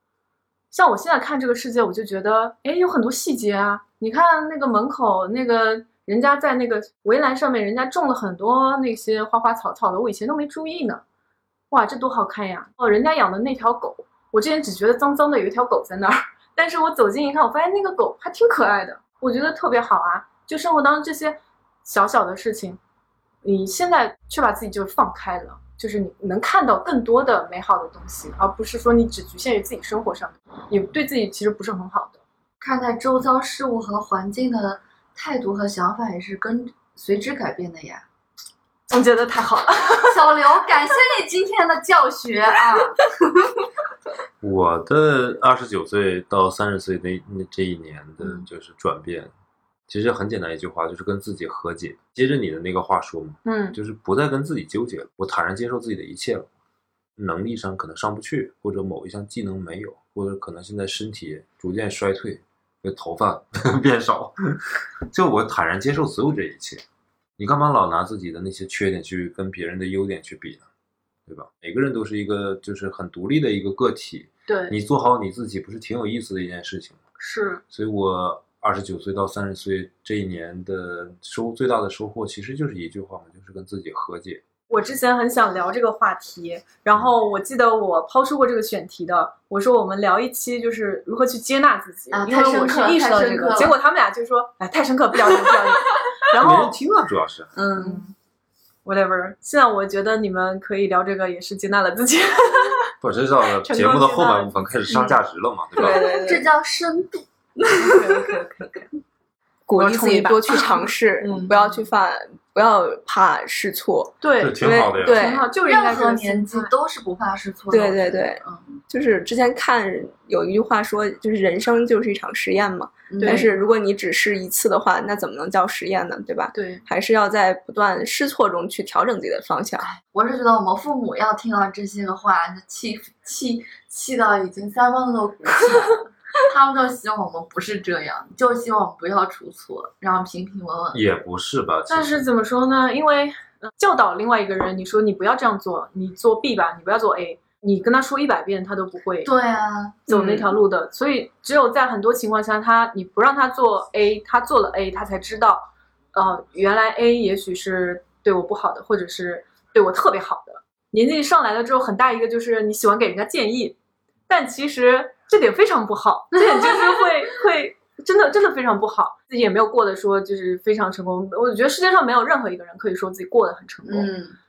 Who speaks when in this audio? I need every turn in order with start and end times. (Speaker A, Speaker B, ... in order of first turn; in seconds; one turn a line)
Speaker A: 0.7-11.0
Speaker A: 11.7-22.8
Speaker A: 23.4-32.2
Speaker B: 32.6-38.0
Speaker A: 38.9-40.2
Speaker B: 40.0-43.0
Speaker C: 44.4-49.3
Speaker B: 48.2-48.5
Speaker C: 49.9-56.5
Speaker A: 53.5-53.8
Speaker C: 57.2-64.6
Speaker C: 65.1-66.8
Speaker C: 67.4-70.6
Speaker C: 71.3-77.0
Speaker A: 74.5-74.8
Speaker A: 77.2-77.6
Speaker C: 77.7-84.4
Speaker A: 84.7-96.8
Speaker B: 92.1-93.8
Speaker C: 96.3-97.5
Speaker B: 97.5-98.0
Speaker A: 97.7-98.1
Speaker A: 98.8-102.9
Speaker C: 103.0-106.2
Speaker A: 103.7-104.5
Speaker D: 105.8-106.4
Speaker B: 105.8-108.3
Speaker A: 107.8-108.8
Speaker D: 109.7-115.5
Speaker A: 109.8-111.5
Speaker A: 114.2-116.7
Speaker C: 114.4-115.4
Speaker B: 115.6-118.8
Speaker D: 117.7-129.9
Speaker B: 123.1-123.7
Speaker A: 123.2-123.5
Speaker A: 126.5-126.8
Speaker B: 129.8-141.0
Speaker C: 140.9-142.2
Speaker A: 141.9-149.3
Speaker B: 149.2-150.5
Speaker A: 150.1-163.8
Speaker A: 164.3-174.1
Speaker B: 166.3-167.1
Speaker B: 173.8-174.4